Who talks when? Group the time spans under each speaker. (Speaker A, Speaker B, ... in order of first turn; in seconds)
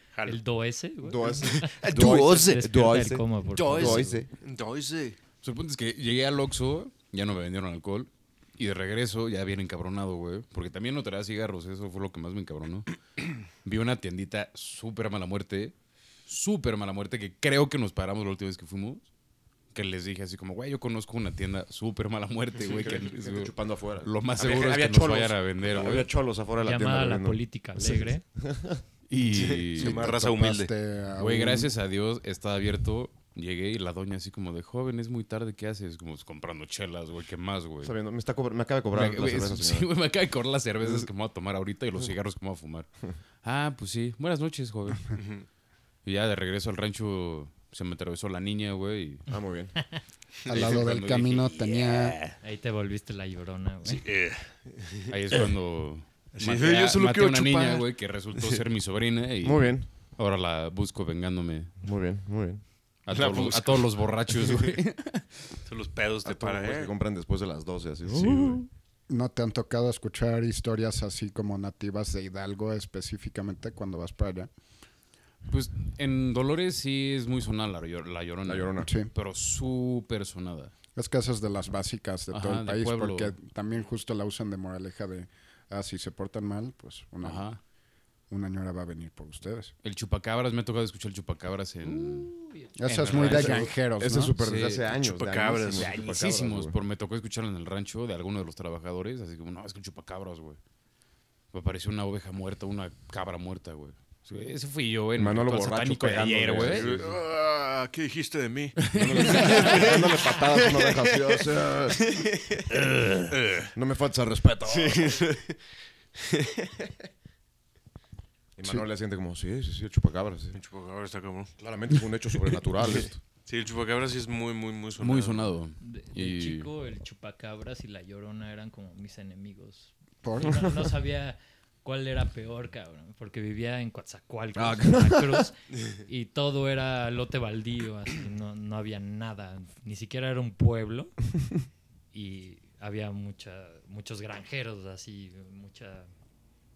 Speaker A: 0.1-0.4, 1.5-2.6, 3.5-5.2, 29.4-30.7, 45.1-45.4, 53.9-55.5, 56.3-58.6, 63.1-63.8, 64.4-64.7, 65.7-66.9, 68.2-68.5, 94.9-95.9, 106.6-112.7, 113.3-113.7, 114.7-115.6, 116.2-116.7, 120.5-121.5, 122.8-125.5
Speaker B: 0.2-4.2, 26.6-28.2, 52.4-54.0, 92.2-93.1, 125.8-141.2, 142.1-146.1
Speaker C: 1.0-4.3, 22.7-28.8, 37.8-39.9, 40.8-41.1, 49.3-49.9, 59.4-59.9, 61.8-62.6, 66.2-68.7, 78.5-78.9, 93.0-96.8, 105.2-107.2, 108.8-112.0, 113.7-115.2, 118.5-120.6, 121.6-123.2, 134.5-135.4
Speaker D: 5.4-13.0, 13.5-15.7, 16.2-19.1, 19.7-26.1, 29.1-30.0, 31.2-37.9, 38.9-42.9, 43.4-45.1, 46.0-49.2, 50.5-52.4, 55.1-61.8, 63.0-65.6, 68.1-68.5, 75.5-80.7, 82.3-83.3, 87.2-87.6, 89.8-92.3, 93.0-93.7, 94.4-94.9, 95.7-100.6, 101.5-106.9, 108.8-109.8, 112.7-113.3, 125.0-126.7
Speaker E: 29.8-31.7, 50.5-52.2, 69.1-74.5, 78.8-79.1, 80.9-87.5, 88.3-89.7, 92.8-94.3, 130.2-130.7